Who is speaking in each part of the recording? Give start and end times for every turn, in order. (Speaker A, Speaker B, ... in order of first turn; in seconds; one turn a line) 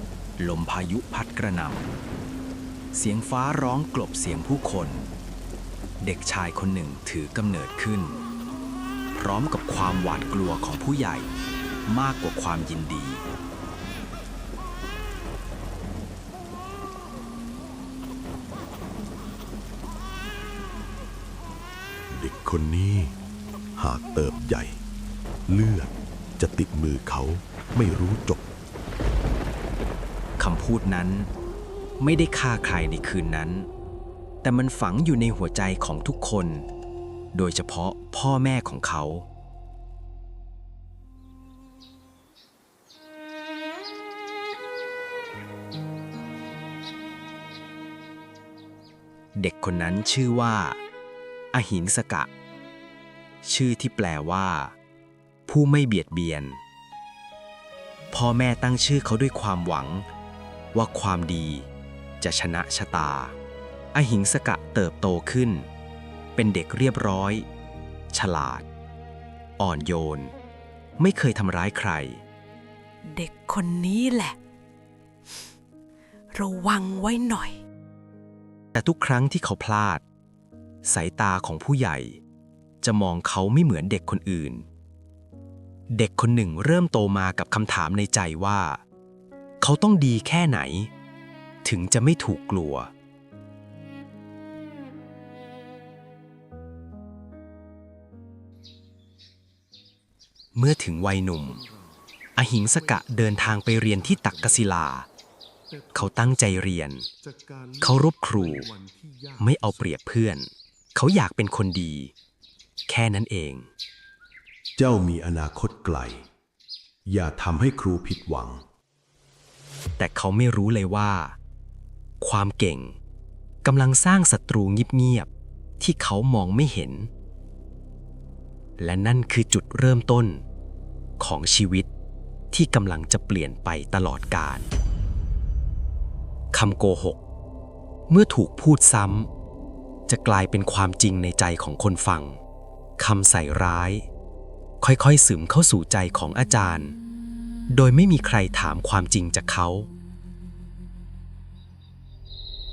Speaker A: 0.4-1.9
Speaker A: 2.9-5.1
Speaker A: 6.0-8.2
Speaker A: 9.2-11.3
Speaker A: 11.8-13.2
Speaker B: 22.1-23.1
Speaker B: 23.8-24.8
Speaker B: 25.5-28.4
Speaker A: 30.4-31.3
Speaker A: 32.0-33.7
Speaker A: 34.4-36.7
Speaker A: 37.3-39.3
Speaker A: 49.4-50.8
Speaker A: 51.5-52.3
Speaker A: 53.4-54.7
Speaker A: 55.5-56.6
Speaker A: 58.1-60.0
Speaker A: 60.7-61.7
Speaker A: 62.2-63.3
Speaker A: 63.9-65.7
Speaker A: 66.3-67.5
Speaker A: 68.1-68.7
Speaker A: 69.6-70.3
Speaker A: 71.0-72.2
Speaker C: 73.1-74.3
Speaker C: 76.3-77.6
Speaker A: 78.7-80.0
Speaker A: 80.8-82.2
Speaker A: 82.8-84.7
Speaker A: 85.9-88.8
Speaker A: 89.6-90.9
Speaker A: 91.6-92.9
Speaker A: 100.5-101.6
Speaker A: 102.3-105.1
Speaker B: 102.7-104.6
Speaker B: 105.7-106.5
Speaker A: 105.9-107.1
Speaker B: 107.2-109.7
Speaker A: 107.8-108.7
Speaker A: 109.4-112.1
Speaker A: 112.9-113.7
Speaker B: 114.8-116.2
Speaker B: 117.0-118.6
Speaker A: 120.0-121.4
Speaker A: 122.2-123.0
Speaker A: 123.6-127.1
Speaker A: 128.8-130.4
Speaker A: 131.2-131.9
Speaker A: 132.5-134.7
Speaker A: 136.5-137.2
Speaker A: 138.1-139.3
Speaker A: 140.1-142.4
Speaker A: 143.0-144.1
Speaker A: 144.8-146.9
Speaker A: 147.7-149.9